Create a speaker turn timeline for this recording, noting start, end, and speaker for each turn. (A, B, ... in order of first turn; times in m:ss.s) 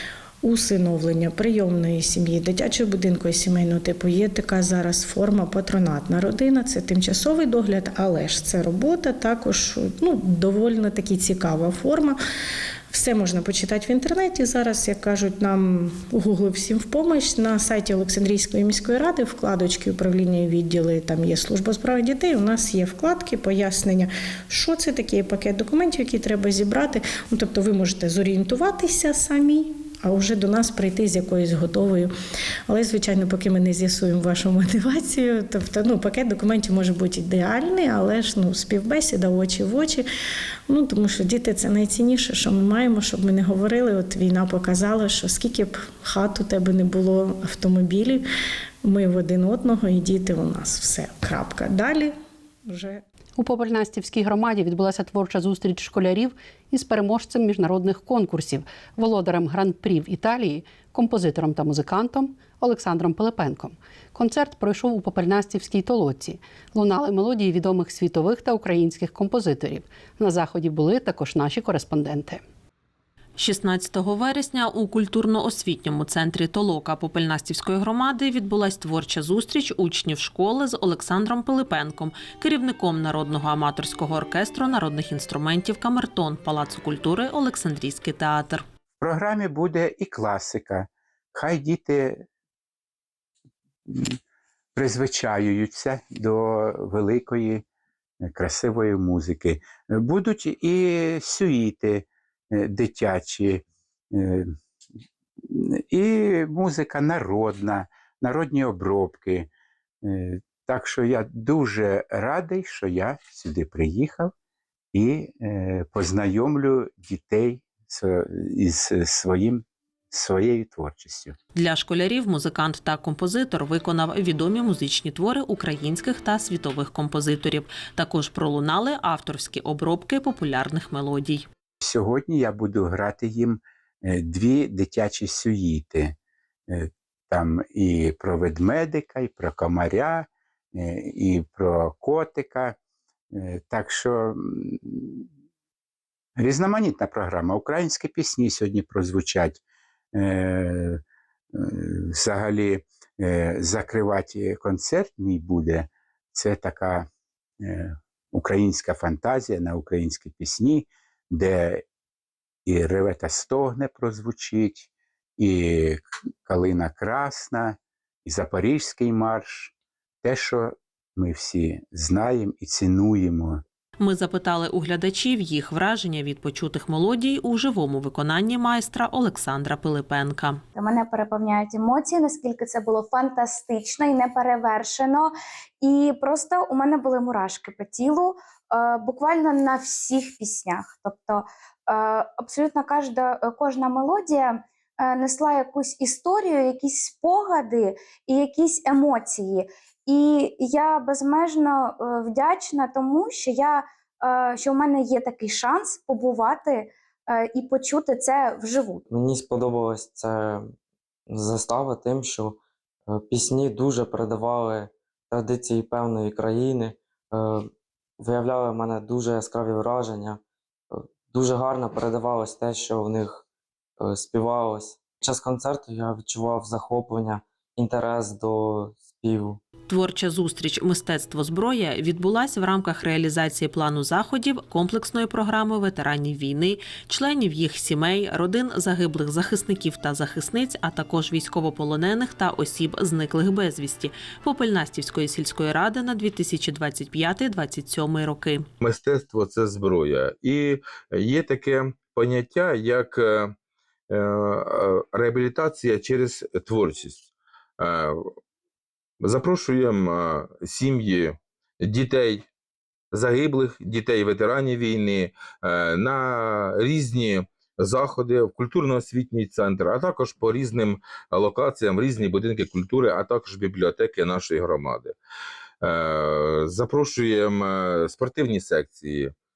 0:00.4-0:12.2 A
0:12.9-0:32.1 A
0:32.7-0:40.0 A
0:40.7-0:48.2 A
0:48.8-0:52.1 A
0:52.7-0:53.0 A
0:53.4-1:12.4 B
1:13.4-1:28.6 C
1:29.0-1:32.2 D
1:33.9-1:34.2 D
1:34.7-1:37.6 D
1:38.2-1:44.5 D
1:45.4-1:49.5 D
1:50.0-1:54.3 D
1:54.9-2:01.4 D
2:01.6-2:11.4 C
2:11.8-2:16.2 D
2:16.7-2:22.8 D
2:23.3-2:25.2 D
2:26.4-2:29.6 D
2:30.1-2:31.0 D
2:31.5-2:37.1 D
2:37.6-2:41.8 D
2:42.6-2:53.6 D
2:54.0-3:00.6 C
3:00.7-3:29.0 E
3:29.1-3:30.7 F
3:31.3-3:43.4 F
3:44.0-3:49.6 F
3:49.9-4:08.6 C
4:08.8-4:13.5 G
4:14.1-4:17.3 G
4:17.8-4:18.2 G
4:19.2-4:22.5 G
4:23.1-4:35.2 G
4:35.8-4:39.3 G